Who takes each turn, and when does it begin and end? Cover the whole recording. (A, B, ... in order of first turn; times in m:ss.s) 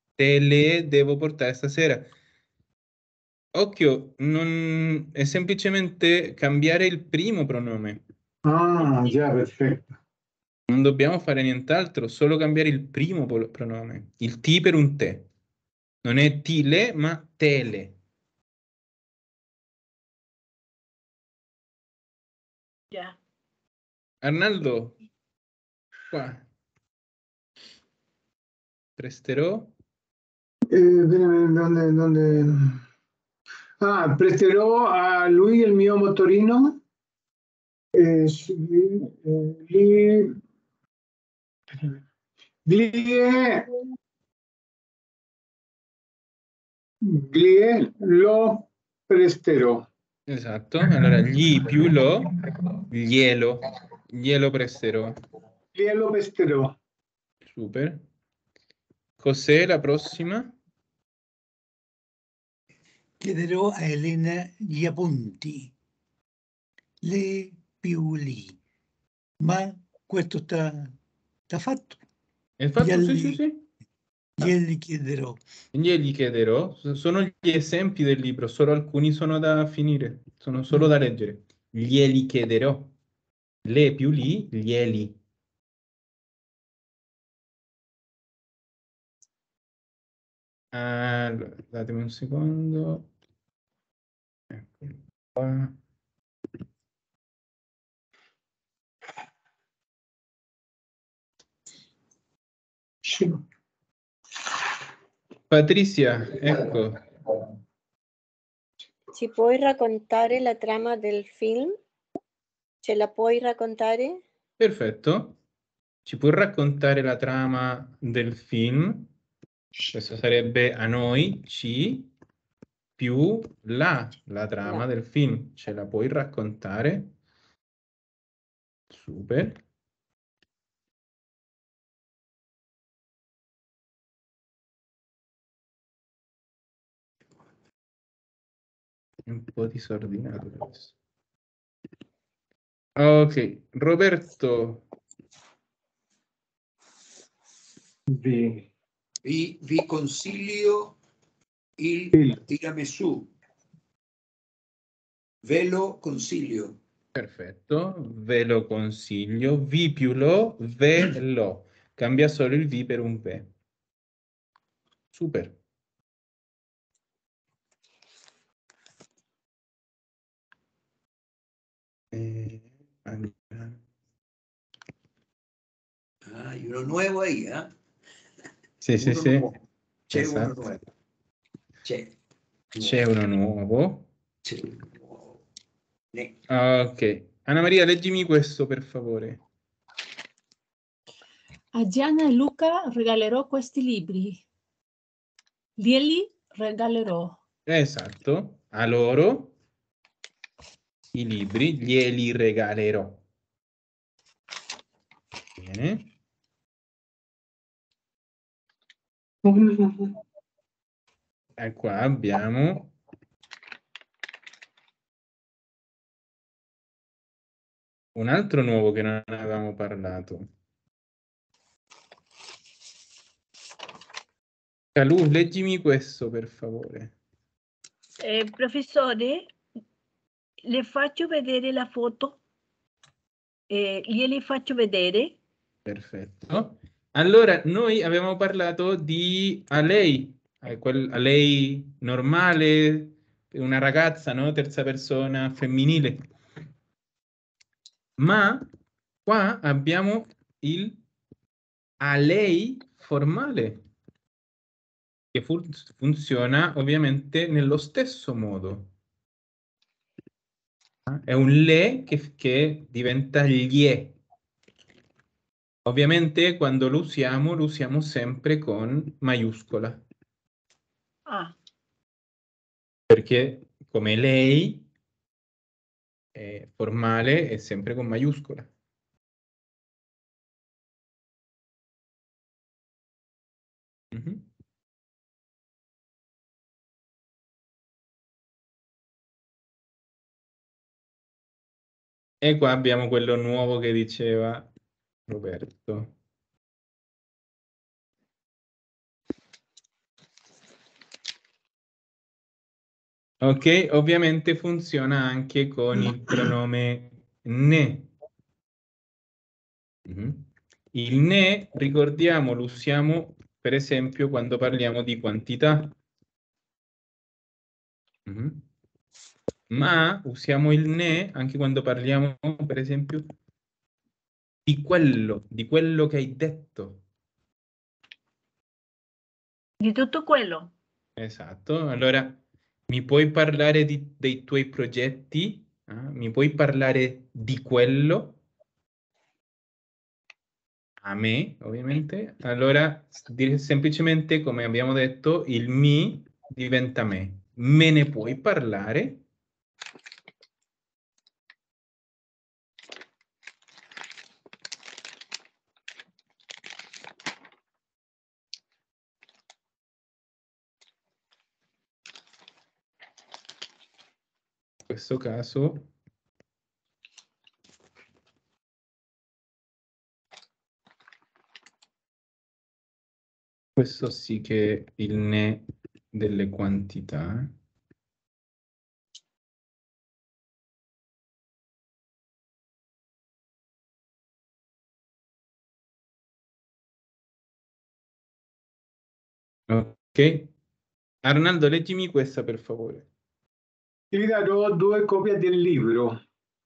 0:00.2-0:02.1 A
0:03.5-0:08.0 A
0:08.4-0:10.0 B
0:10.7-0:15.3 A
0:16.0-0:18.0 A
0:22.9-0:23.2 C
0:24.2-0:25.0 A
0:26.1-0:26.5 A
0:29.0-0:29.7 A
0:30.7-0:32.8 B
0:33.8-0:36.8 B
0:37.9-0:40.4 B
0:41.7-0:42.0 B
0:42.6-0:43.7 B
0:47.0-0:49.9 B
0:50.3-0:52.3 A
0:52.9-0:55.2 A
0:55.7-0:56.8 B
0:57.5-0:58.0 A
0:59.2-1:00.6 A
1:03.2-1:05.7 D
1:07.0-1:08.6 D
1:09.4-1:11.0 D
1:11.5-1:12.0 D
1:12.6-1:13.7 A
1:12.8-1:13.4 D
1:14.4-1:15.4 D
1:15.7-1:22.9 A
1:23.6-1:25.2 A
1:30.7-1:33.1 A
1:34.5-1:35.8 A
1:43.0-1:43.4 B
1:45.5-1:47.0 A
1:49.1-1:51.8 E
1:52.8-1:54.2 E
1:54.6-1:55.4 A
1:56.0-1:59.1 A
1:59.9-2:02.1 A
2:03.0-2:07.1 A
2:08.9-2:09.6 A
2:19.3-2:21.0 A
2:23.0-2:24.8 A
2:28.1-2:28.7 B
2:29.2-2:31.0 F
2:31.8-2:33.3 F
2:32.1-2:32.4 B
2:35.4-2:36.8 F
2:37.2-2:43.5 A
2:45.1-2:45.6 A
2:52.1-2:53.8 A
2:56.2-2:57.7 F
2:58.8-2:59.5 A
2:59.0-3:00.8 F
3:00.1-3:00.6 A
3:01.8-3:02.1 F
3:02.8-3:04.1 A
3:04.4-3:05.4 F
3:06.5-3:09.4 A
3:11.8-3:14.4 G
3:15.8-3:17.4 G
3:17.7-3:19.6 A
3:21.1-3:23.2 A
3:25.6-3:26.1 A
3:29.4-3:30.2 B
3:31.6-3:33.0 A
3:38.2-3:40.5 A
3:45.0-3:47.1 A
3:48.2-3:49.5 C
3:50.6-3:52.4 C
3:53.7-3:55.4 C
3:55.8-4:06.2 A
4:08.2-4:08.7 A
4:09.3-4:11.0 A
4:12.0-4:13.8 A
4:15.3-4:18.9 A
4:21.1-4:24.2 A
4:25.8-4:30.0 A
4:31.3-4:31.6 C
4:33.1-4:34.9 A
4:36.4-4:38.7 A
4:44.1-4:44.5 A
4:52.4-4:54.7 A
4:55.3-4:56.1 A
5:03.4-5:08.1 A
5:10.1-5:16.0 A
5:18.3-5:18.7 A
5:19.7-5:23.2 A
5:24.7-5:27.0 A
5:29.8-5:30.7 C
5:31.2-5:38.4 A
5:41.0-5:49.2 A
6:04.9-6:05.9 A
6:13.8-6:17.5 A
6:29.7-6:30.5 A
6:31.2-6:33.1 A
6:34.1-6:36.2 B